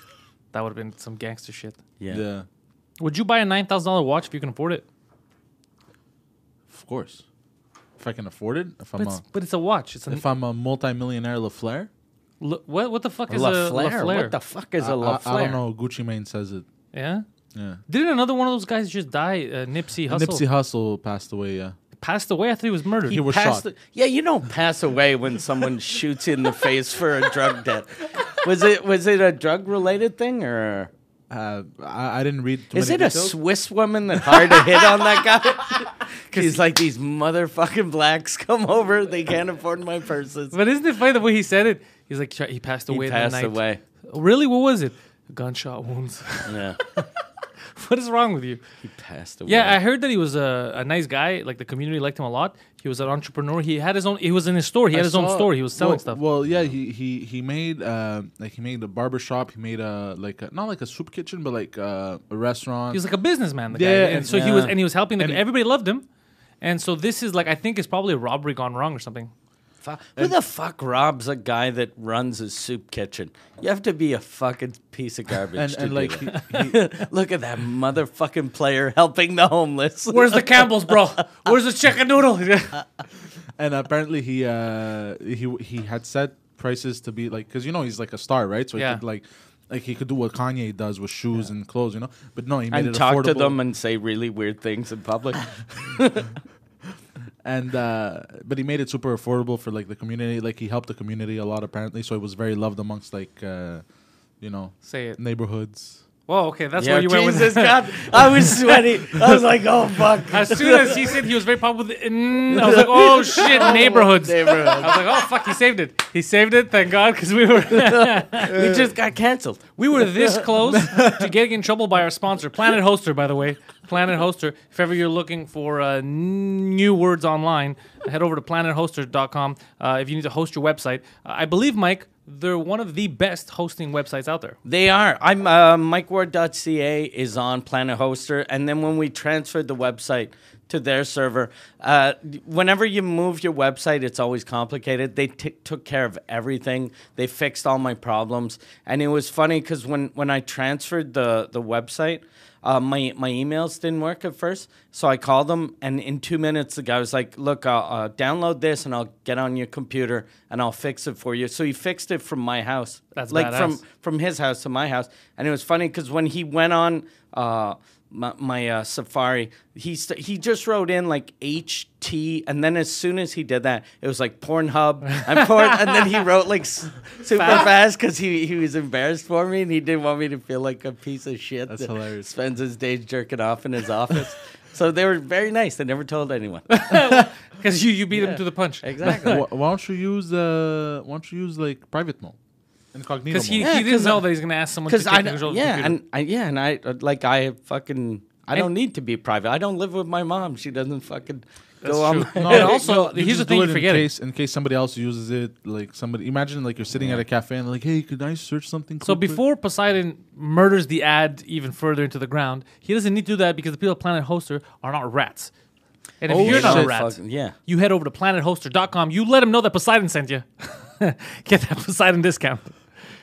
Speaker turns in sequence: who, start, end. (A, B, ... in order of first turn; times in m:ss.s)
0:00.5-0:01.8 A
0:02.1-0:02.5 B
0:03.0-0:04.8 A
0:06.7-0:07.2 B
0:08.0-0:09.2 B
0:09.0-0:10.2 A
0:10.1-0:11.9 B
0:12.4-0:14.4 A
0:13.3-0:15.6 C
0:14.8-0:16.7 B
0:16.9-0:17.2 A
0:17.6-0:17.8 B
0:17.9-0:20.4 A
0:20.1-0:21.8 B
0:22.0-0:23.2 A
0:23.1-0:23.7 B
0:23.1-0:30.9 C
0:31.3-0:33.4 B
0:32.7-0:40.6 C
0:40.5-0:47.1 A
0:42.9-0:43.8 C
0:46.4-0:46.8 C
0:47.7-0:48.6 A
0:48.8-0:49.8 C
0:49.5-0:56.2 A
0:54.9-1:03.0 B
1:02.9-1:06.0 A
1:03.7-1:04.6 B
1:04.3-1:04.8 C
1:05.2-1:05.4 B
1:06.6-1:09.3 A
1:09.8-1:21.2 C
1:15.6-1:16.8 B
1:20.1-1:22.8 A
1:23.6-1:33.6 B
1:28.8-1:29.0 A
1:32.7-1:36.3 C
1:37.4-1:43.8 B
1:44.4-1:46.0 B
1:44.8-1:45.2 A
1:46.3-1:48.8 A
1:46.8-1:51.2 C
1:50.3-1:58.7 A
1:52.5-1:55.2 C
1:57.8-2:00.5 C
1:59.8-2:14.6 A
2:00.6-2:01.3 B
2:14.7-3:06.7 C
2:43.1-2:43.8 A
2:55.3-2:56.2 A
2:57.3-2:57.7 A
3:01.7-3:02.3 B
3:06.7-3:09.4 A
3:08.1-3:09.4 C
3:09.1-3:12.4 B
3:12.9-3:13.8 B
3:13.3-3:16.0 A
3:13.6-3:14.3 C
3:14.9-3:22.8 C
3:21.8-3:24.1 A
3:22.4-3:29.4 B
3:27.0-3:27.2 C
3:29.0-3:35.5 A
3:36.2-3:42.8 A
3:36.3-3:36.9 B
3:36.4-3:37.6 C